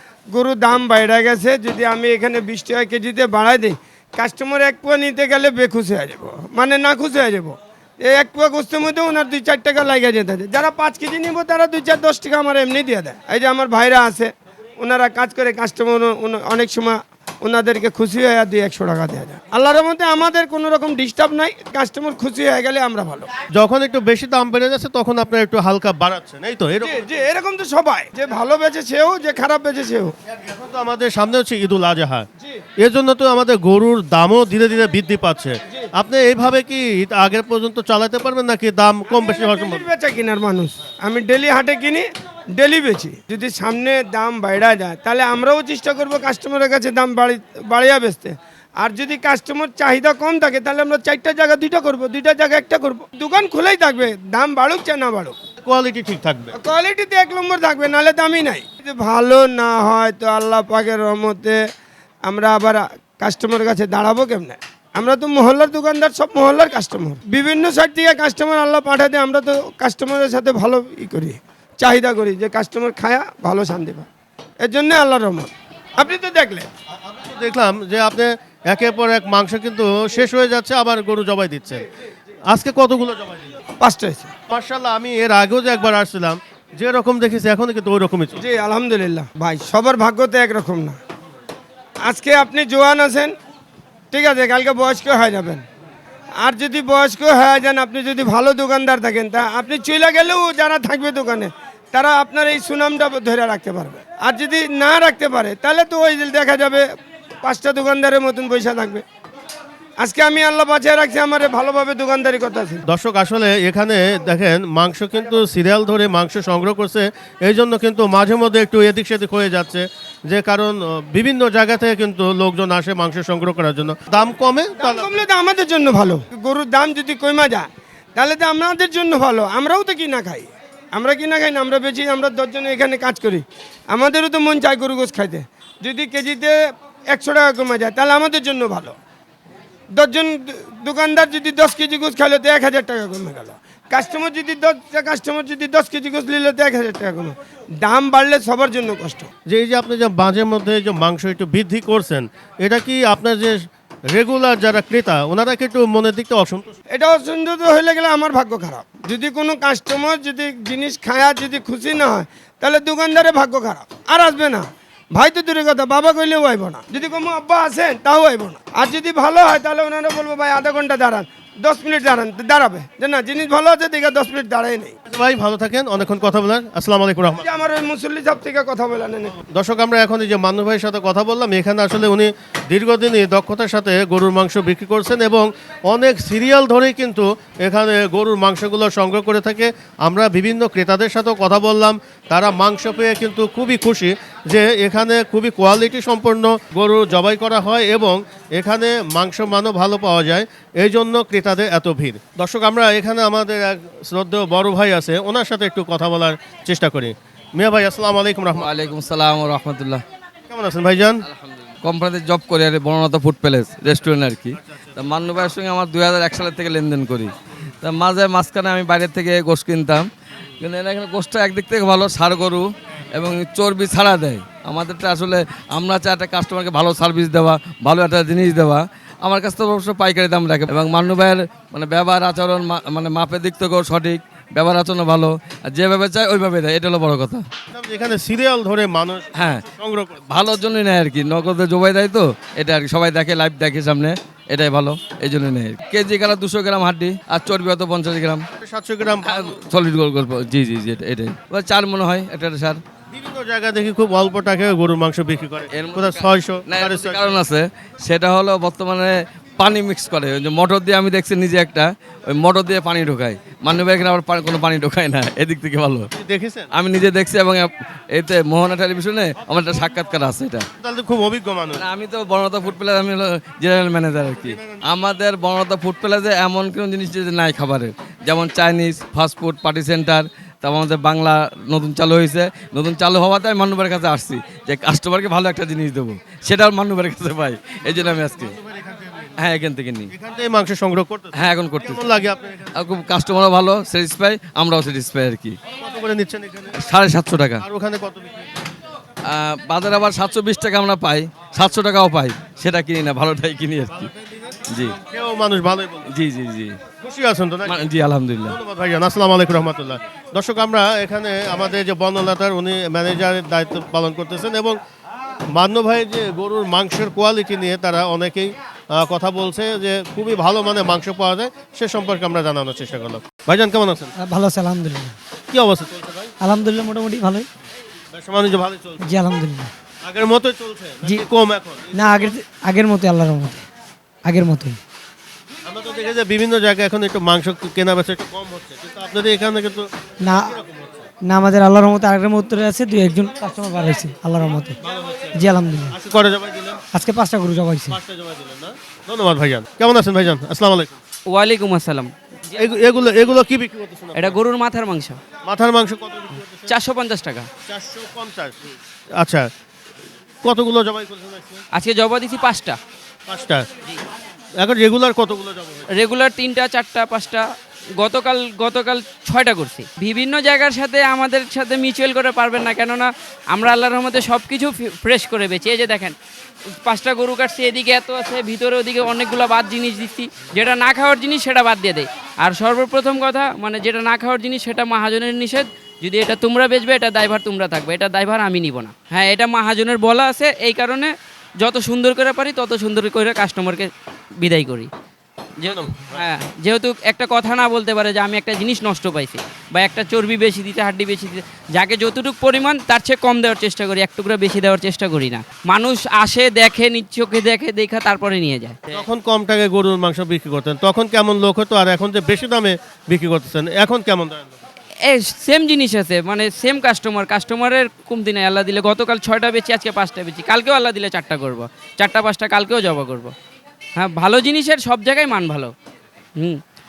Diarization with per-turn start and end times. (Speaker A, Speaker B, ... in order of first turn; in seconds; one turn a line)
Speaker A: 0.3-23.3
Speaker B: 23.5-27.1
Speaker A: 26.8-30.1
Speaker B: 30.3-32.2
Speaker B: 32.8-39.8
Speaker A: 39.1-55.3
Speaker B: 55.6-56.5
Speaker A: 56.5-61.6
Speaker A: 62.2-74.1
Speaker A: 74.6-76.7
Speaker B: 77.0-81.8
Speaker B: 82.5-83.5
Speaker A: 83.8-84.3
Speaker B: 84.5-88.4
Speaker A: 88.4-91.0
Speaker A: 92.0-93.3
Speaker A: 94.1-95.6
Speaker A: 96.4-106.9
Speaker A: 107.4-109.0
Speaker A: 110.0-112.8
Speaker B: 112.9-125.1
Speaker A: 124.8-136.6
Speaker A: 137.1-138.9
Speaker A: 139.9-149.3
Speaker B: 149.5-156.8
Speaker A: 156.9-174.9
Speaker B: 175.1-177.4
Speaker A: 177.4-179.4
Speaker B: 179.5-208.7
Speaker C: 208.6-210.0
Speaker B: 210.5-211.2
Speaker C: 211.3-220.1
Speaker C: 220.6-237.4
Speaker B: 237.7-240.3
Speaker C: 239.4-239.6
Speaker C: 240.3-248.4
Speaker B: 248.6-249.6
Speaker C: 249.2-252.8
Speaker B: 253.1-257.3
Speaker C: 255.7-266.1
Speaker B: 266.1-266.7
Speaker C: 266.7-270.6
Speaker B: 270.8-271.8
Speaker C: 271.8-288.5
Speaker B: 274.4-274.8
Speaker B: 287.9-289.4
Speaker C: 289.4-290.1
Speaker B: 290.1-292.8
Speaker C: 291.3-292.0
Speaker C: 292.8-295.6
Speaker B: 295.8-296.8
Speaker C: 296.8-297.6
Speaker B: 297.6-298.5
Speaker C: 299.2-304.1
Speaker B: 304.0-306.1
Speaker C: 306.1-306.8
Speaker B: 307.0-307.8
Speaker C: 307.6-308.6
Speaker B: 308.4-314.8
Speaker B: 315.5-324.1
Speaker D: 324.2-325.1
Speaker B: 325.5-326.3
Speaker D: 326.4-327.5
Speaker B: 328.1-329.1
Speaker D: 329.0-329.7
Speaker B: 330.0-332.3
Speaker D: 331.9-333.6
Speaker D: 334.2-334.8
Speaker B: 335.6-341.1
Speaker D: 340.2-340.5
Speaker D: 341.2-344.8
Speaker B: 344.9-345.4
Speaker D: 345.4-345.9
Speaker B: 345.9-346.8
Speaker D: 346.9-348.0
Speaker B: 347.9-350.9
Speaker E: 351.3-352.1
Speaker B: 352.5-354.4
Speaker E: 354.1-355.2
Speaker B: 355.4-356.7
Speaker E: 356.7-357.5
Speaker B: 357.7-359.5
Speaker B: 360.4-361.6
Speaker E: 361.7-362.8
Speaker B: 363.3-363.7
Speaker B: 364.6-365.9
Speaker E: 365.9-367.4
Speaker E: 368.0-376.1
Speaker E: 376.8-393.9
Speaker E: 394.4-394.9
Speaker E: 395.6-409.0
Speaker B: 395.6-396.2
Speaker B: 408.9-414.6
Speaker E: 415.1-423.3
Speaker E: 424.0-425.7